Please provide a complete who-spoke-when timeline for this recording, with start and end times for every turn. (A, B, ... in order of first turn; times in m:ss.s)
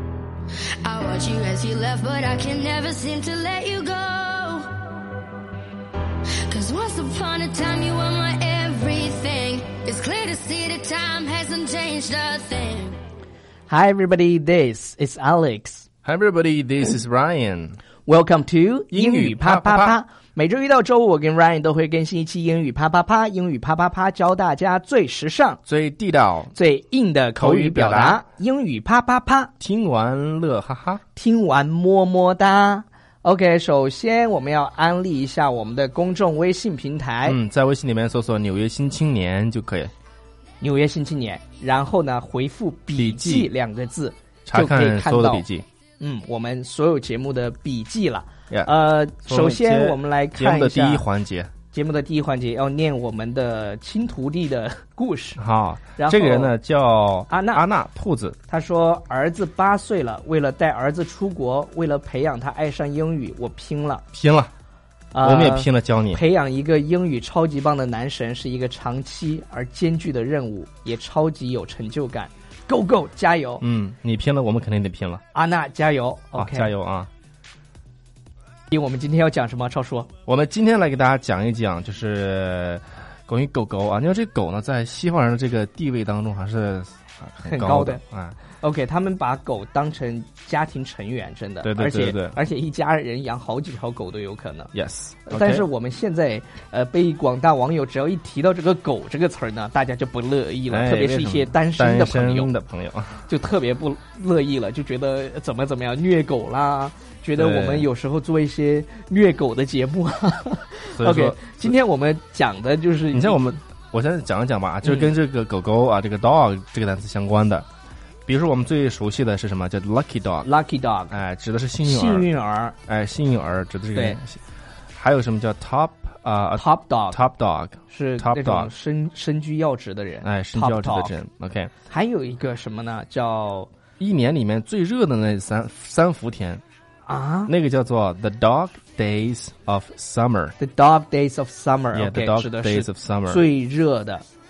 0:00.8-0:04.8 A
0:06.5-0:13.0 A
0:13.7-0:15.9 B
0:16.0-0:17.8 C
0:18.1-0:25.6 B
0:18.9-0:20.0 C
0:25.7-0:26.5 C
0:26.5-0:29.5 B
0:27.4-0:28.2 C
0:29.6-0:31.0 C
0:31.1-0:37.4 B
0:37.3-0:39.9 C
0:40.6-0:45.5 B
0:43.0-0:43.5 C
0:44.5-0:45.7 C
0:46.0-0:51.0 B
0:49.2-0:51.5 C
0:51.7-0:55.4 B
0:55.4-0:58.4 C
0:56.0-0:56.5 B
0:57.3-0:57.6 B
0:58.5-1:04.0 B
1:04.1-1:04.5 C
1:05.1-1:13.6 B
1:05.2-1:06.2 C
1:13.6-1:15.2 C
1:15.3-1:16.7 B
1:16.4-1:17.1 C
1:18.7-1:20.1 B
1:20.3-1:28.4 C
1:27.5-1:28.0 B
1:28.6-1:34.7 B
1:31.6-1:32.4 C
1:34.7-1:35.7 C
1:35.3-1:42.5 B
1:40.7-1:43.2 C
1:43.2-1:53.6 B
1:47.4-1:47.9 C
1:50.9-1:51.7 C
1:53.1-1:57.7 C
1:54.8-1:55.1 B
1:58.3-2:00.5 C
2:00.4-2:01.2 B
2:01.1-2:02.3 C
2:01.8-2:02.8 B
2:02.9-2:04.4 C
2:03.9-2:04.2 B
2:04.9-2:08.7 C
2:06.6-2:07.2 B
2:07.9-2:11.1 B
2:10.2-2:11.7 C
2:11.9-2:13.7 B
2:14.0-2:16.6 C
2:17.1-2:17.5 B
2:17.5-2:20.6 C
2:20.6-2:24.3 B
2:21.9-2:23.5 C